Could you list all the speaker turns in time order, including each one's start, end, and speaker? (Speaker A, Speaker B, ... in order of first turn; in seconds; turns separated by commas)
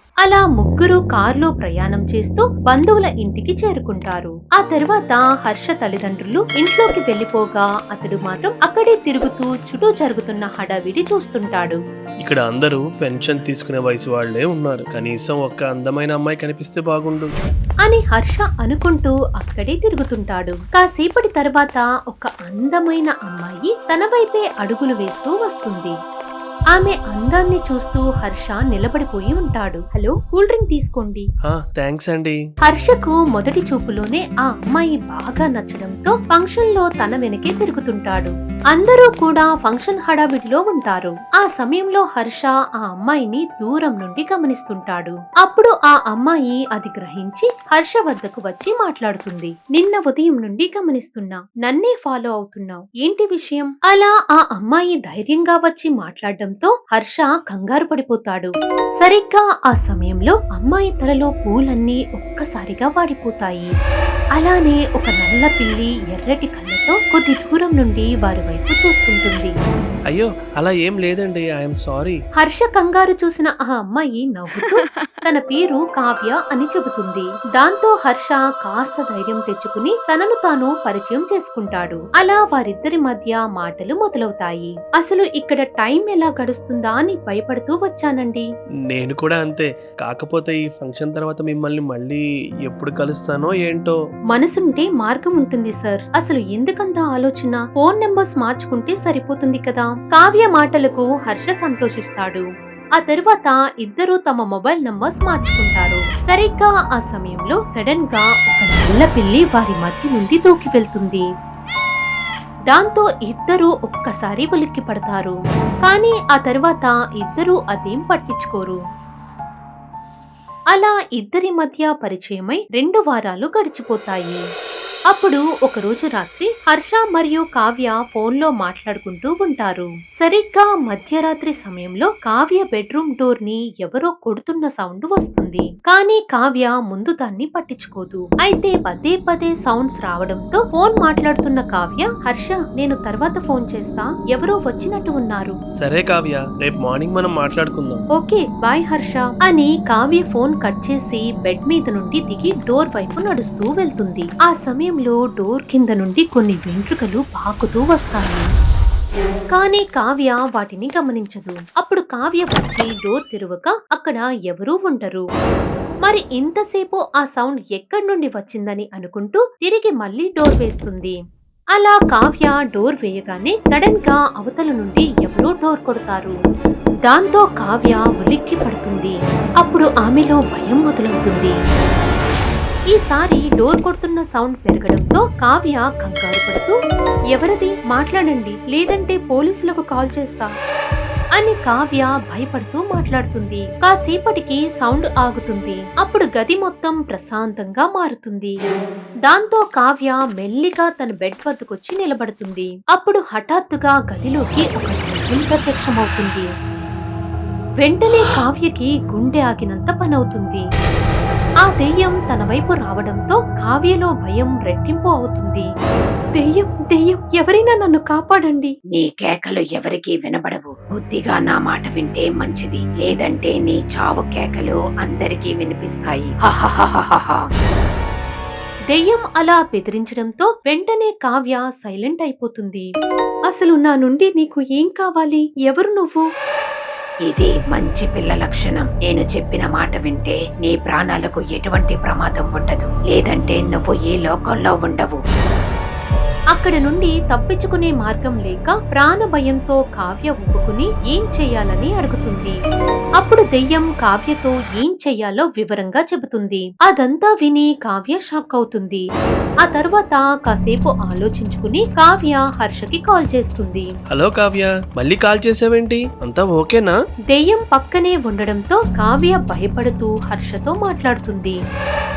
Speaker A: 0.2-11.8, Speaker B: 12.2-17.3, Speaker A: 17.9-25.9, Speaker A: 26.7-31.2, Speaker B: 31.5-32.4, Speaker A: 32.7-63.7, Speaker A: 64.4-69.5, Speaker B: 70.1-72.2, Speaker A: 72.4-88.5, Speaker B: 88.9-94.0, Speaker A: 94.3-102.5, Speaker A: 103.0-111.3, Speaker A: 112.7-118.8, Speaker A: 120.7-124.4, Speaker A: 125.1-145.5, Speaker B: 145.8-148.0, Speaker A: 148.2-158.5, Speaker A: 159.5-165.3, Speaker A: 166.1-171.2, Speaker A: 171.8-176.4, Speaker A: 177.1-181.6, Speaker A: 182.9-186.8, Speaker A: 187.3-190.5, Speaker A: 191.4-198.6, Speaker A: 199.3-206.5, Speaker A: 207.8-210.7, Speaker A: 211.7-215.7, Speaker A: 216.4-218.7, Speaker C: 218.9-227.5, Speaker A: 228.9-232.9, Speaker A: 233.5-236.3, Speaker C: 237.3-245.2, Speaker A: 246.6-252.6, Speaker A: 253.2-259.1, Speaker A: 259.6-263.9, Speaker B: 264.1-266.9, Speaker A: 267.3-271.6